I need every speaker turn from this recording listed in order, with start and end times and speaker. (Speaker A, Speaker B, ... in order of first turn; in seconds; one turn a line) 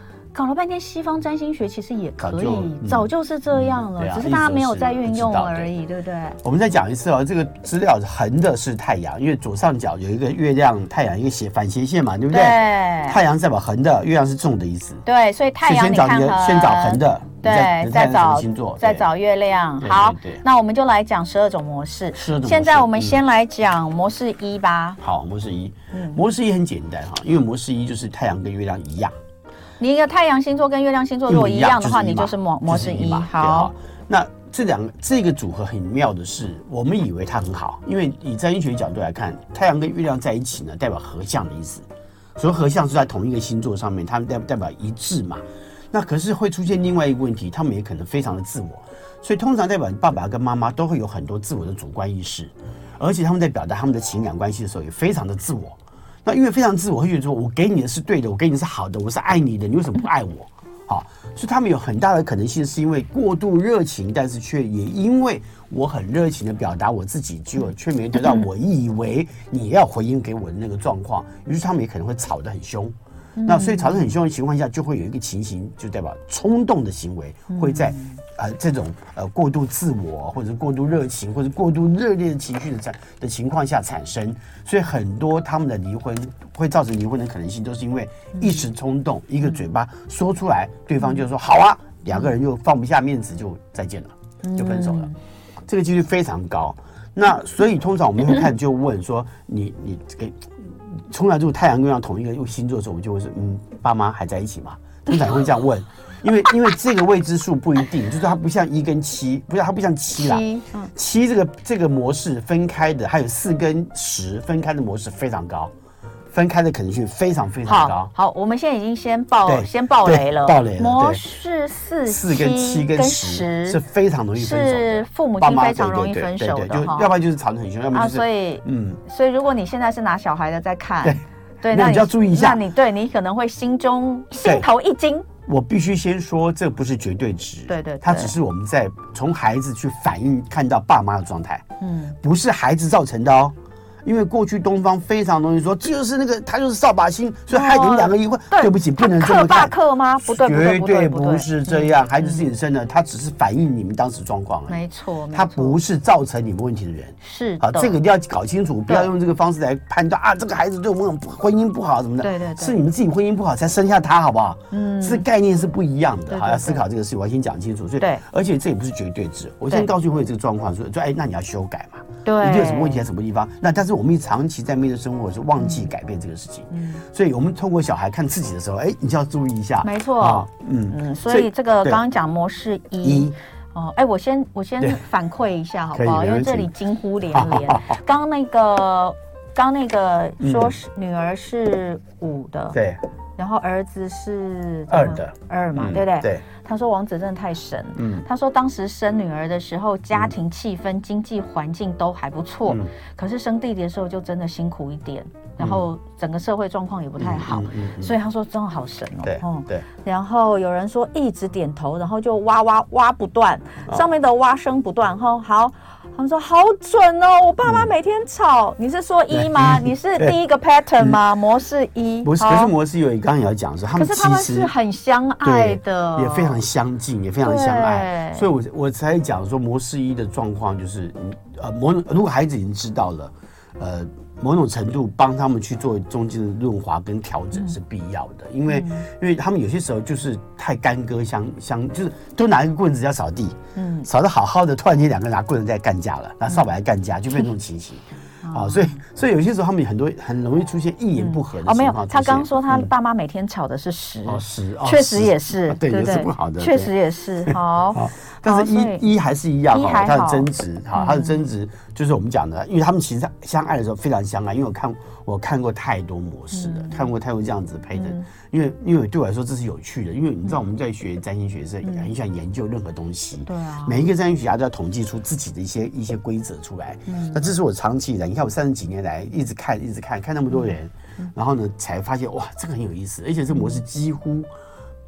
Speaker A: 0.3-6.4
Speaker B: 2.2-5.7
Speaker B: 6.4-15.0
Speaker A: 12.3-13.2
Speaker A: 15.0-25.0
Speaker B: 15.6-19.1
Speaker B: 19.8-20.4
Speaker B: 22.1-23.2
Speaker B: 25.0-29.1
Speaker A: 25.9-26.2
Speaker A: 29.8-33.7
Speaker B: 31.3-41.8
Speaker B: 42.4-95.1
Speaker A: 73.3-74.1
Speaker A: 77.5-78.2
Speaker A: 88.3-88.6
Speaker A: 94.4-95.1
Speaker B: 95.7-115.7
Speaker A: 110.1-110.9
Speaker B: 116.3-118.1
Speaker A: 117.6-123.8
Speaker B: 119.5-121.2
Speaker B: 122.1-129.0
Speaker A: 124.3-127.1
Speaker A: 127.9-135.3
Speaker B: 131.0-132.6
Speaker B: 134.4-134.7
Speaker B: 135.4-141.7
Speaker A: 137.7-138.3
Speaker A: 141.8-142.2
Speaker B: 142.2-154.8
Speaker A: 147.5-152.5
Speaker A: 154.7-155.8
Speaker B: 155.3-182.0
Speaker A: 157.2-157.9
Speaker A: 162.2-162.8
Speaker A: 164.7-165.2
Speaker A: 166.3-166.8
Speaker A: 172.2-173.1
Speaker A: 175.6-175.9
Speaker A: 176.7-177.0
Speaker A: 179.8-192.8
Speaker B: 183.0-183.3
Speaker B: 185.9-186.7
Speaker B: 187.3-187.9
Speaker B: 190.4-190.8
Speaker B: 192.7-193.0
Speaker A: 193.4-222.7
Speaker B: 194.9-196.4
Speaker B: 198.0-198.2
Speaker B: 205.6-205.8
Speaker B: 207.2-208.1
Speaker B: 209.2-209.8
Speaker B: 219.3-220.3
Speaker B: 222.2-224.7
Speaker A: 223.9-226.6
Speaker B: 225.4-252.9
Speaker A: 227.4-228.5
Speaker A: 238.7-239.1
Speaker A: 243.8-244.1
Speaker A: 248.4-249.0
Speaker A: 251.2-259.1
Speaker B: 254.2-256.9
Speaker B: 257.5-284.5
Speaker A: 259.7-261.4
Speaker A: 266.5-267.1
Speaker A: 267.9-268.2
Speaker A: 271.8-272.1
Speaker A: 273.4-274.1
Speaker A: 277.1-277.5
Speaker A: 280.6-281.3
Speaker A: 283.5-283.8